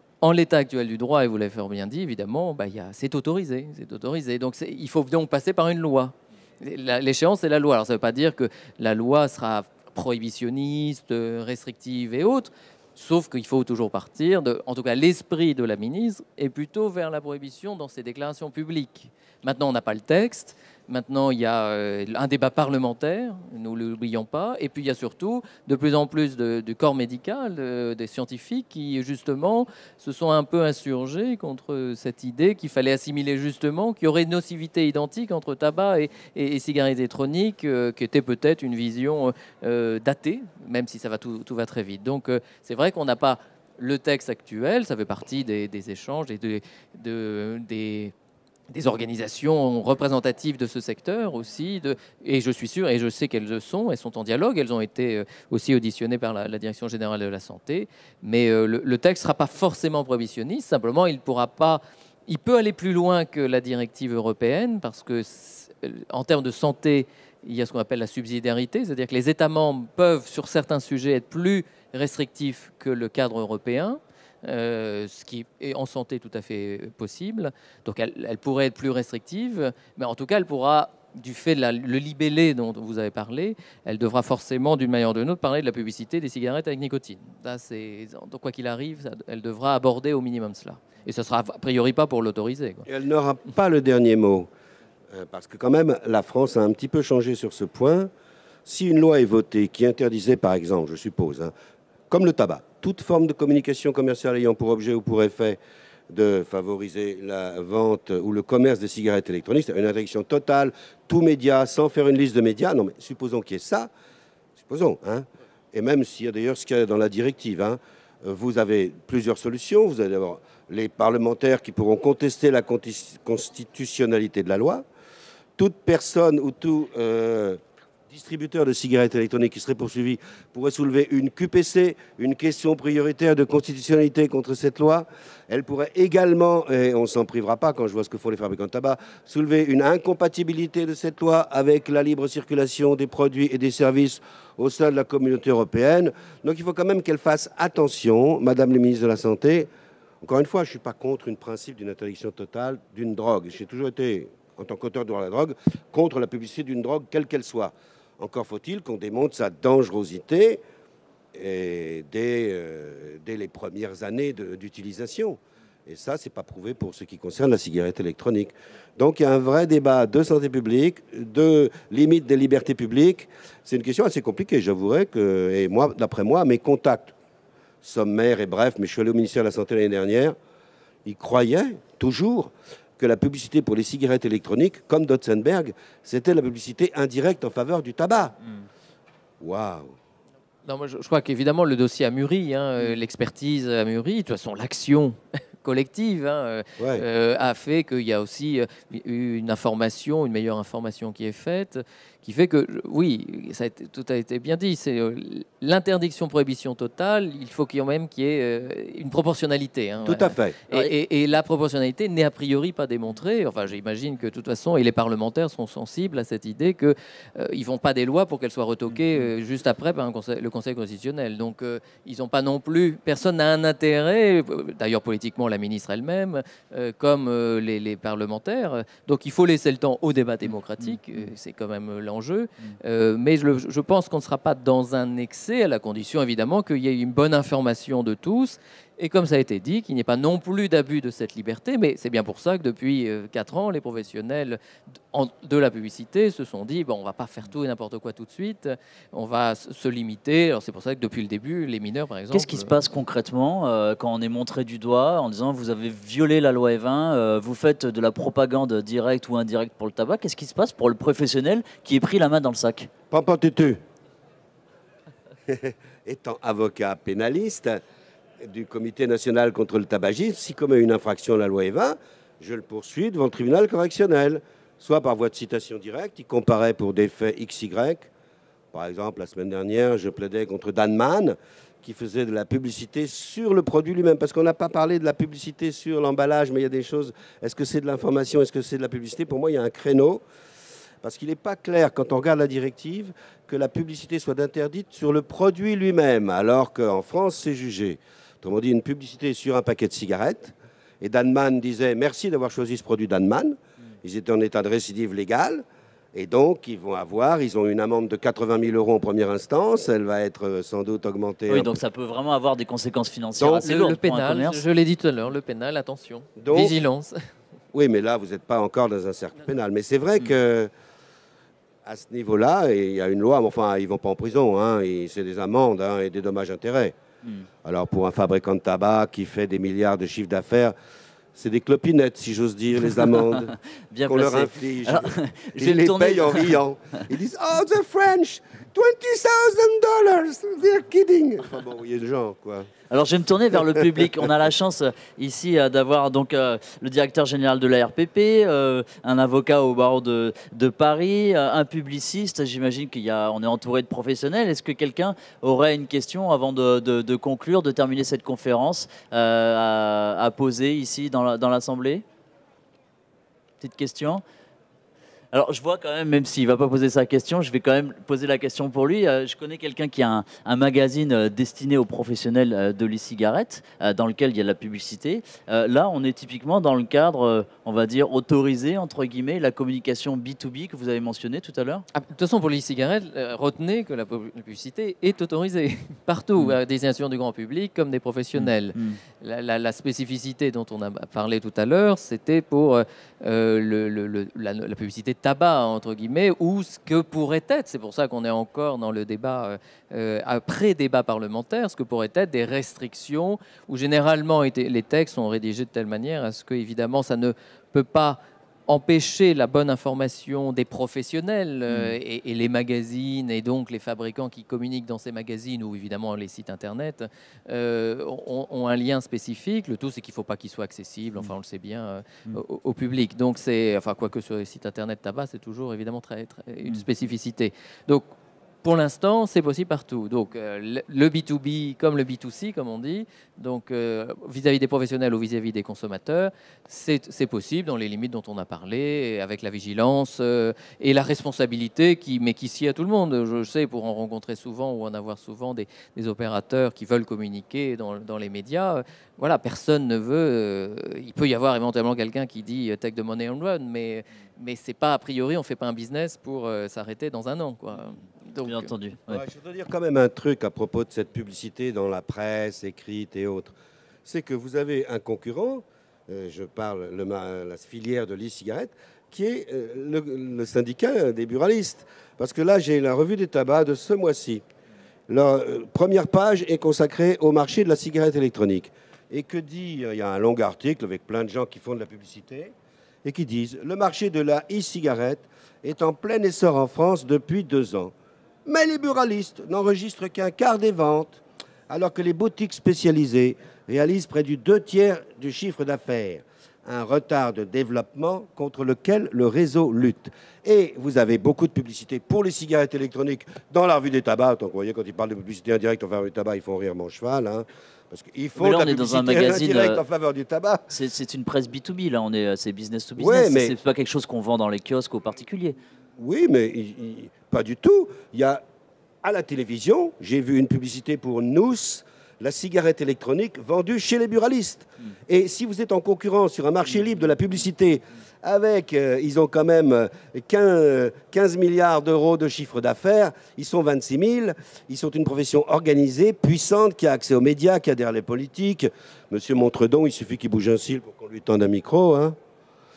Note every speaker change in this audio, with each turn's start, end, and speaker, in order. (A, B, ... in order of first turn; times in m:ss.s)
0:00.2-0:48.1 A
0:48.7-1:32.8 A
1:32.9-1:34.5 B
1:35.1-1:38.1 B
1:38.6-1:41.5 B
1:42.1-1:45.6 B
1:46.1-1:53.9 B
1:54.6-2:04.8 B
2:05.6-2:29.7 B
2:30.2-2:40.6 B
2:41.3-2:57.1 B
2:57.8-3:00.4 B
3:01.0-3:08.4 B
3:09.4-3:09.9 B
3:10.6-4:04.6 A
3:16.8-3:17.0 B
3:30.0-3:30.6 B
4:05.1-4:12.7 A
4:12.3-4:22.9 C
4:23.1-4:23.8 B
4:25.5-4:27.8 B
4:28.4-4:38.1 B
4:38.7-4:50.2 B
4:51.0-5:11.8 B
5:11.5-5:14.6 C
5:13.4-5:17.2 A
5:16.4-5:16.8 B
5:17.7-5:20.7 B
5:21.8-5:26.9 B
5:27.6-5:30.7 B
5:31.3-5:33.5 B
5:33.9-5:36.6 C
5:34.1-5:42.7 B
5:42.9-6:02.0 C
5:43.7-5:44.0 B
6:03.6-6:04.2 C
6:05.3-6:21.8 C
6:21.9-7:08.0 A
6:28.3-6:29.0 C
6:51.7-6:51.9 C
7:08.6-7:38.7 A
7:38.4-7:39.2 C
7:39.1-7:43.5 B
7:44.0-7:54.4 B
7:55.1-8:02.5 B
8:03.0-8:07.9 B
8:08.4-8:30.6 B
8:28.4-8:29.8 C
8:30.7-8:35.6 C
8:33.0-8:33.5 B
8:36.0-8:38.4 B
8:39.0-9:02.2 B